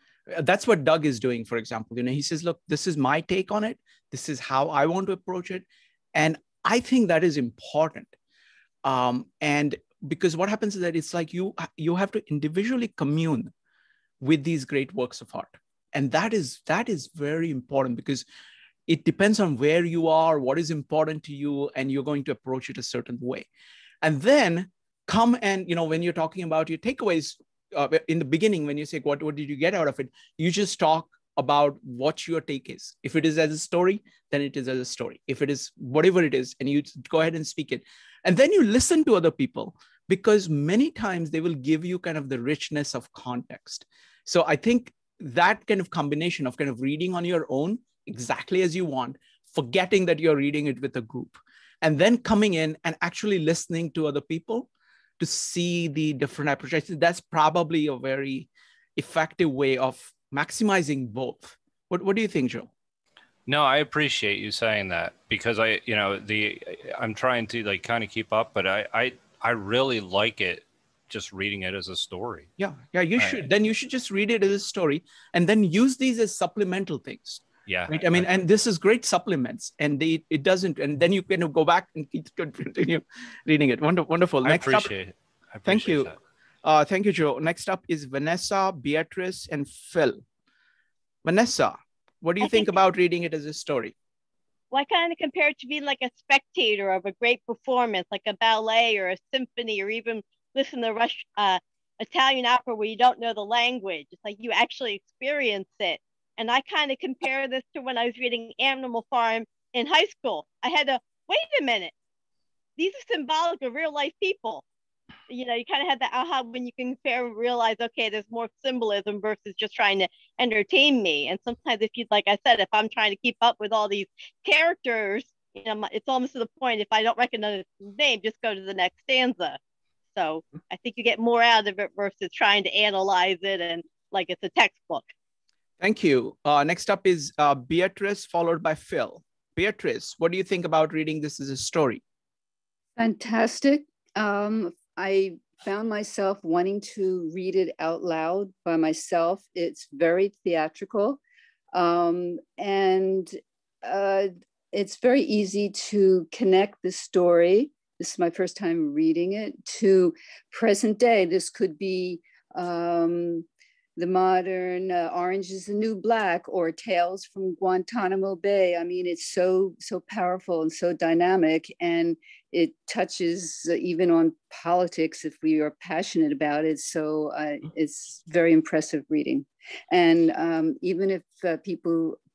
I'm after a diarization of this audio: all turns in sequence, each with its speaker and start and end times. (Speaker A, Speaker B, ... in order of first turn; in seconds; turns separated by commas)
Speaker A: 0.3-8.2, Speaker A: 8.8-13.5, Speaker A: 14.2-18.2, Speaker A: 18.9-23.5, Speaker A: 24.0-54.7, Speaker A: 55.2-62.7, Speaker B: 63.5-72.5, Speaker A: 72.6-84.9, Speaker B: 73.2-73.5, Speaker B: 77.7-78.3, Speaker B: 84.4-86.2, Speaker A: 85.7-86.1, Speaker A: 86.6-90.2, Speaker A: 91.2-94.0, Speaker C: 92.4-92.7, Speaker C: 94.7-111.9, Speaker C: 112.8-114.6, Speaker C: 115.3-129.6, Speaker C: 130.2-135.1, Speaker A: 135.8-142.0, Speaker D: 143.0-151.2, Speaker D: 151.7-163.5, Speaker D: 164.0-182.2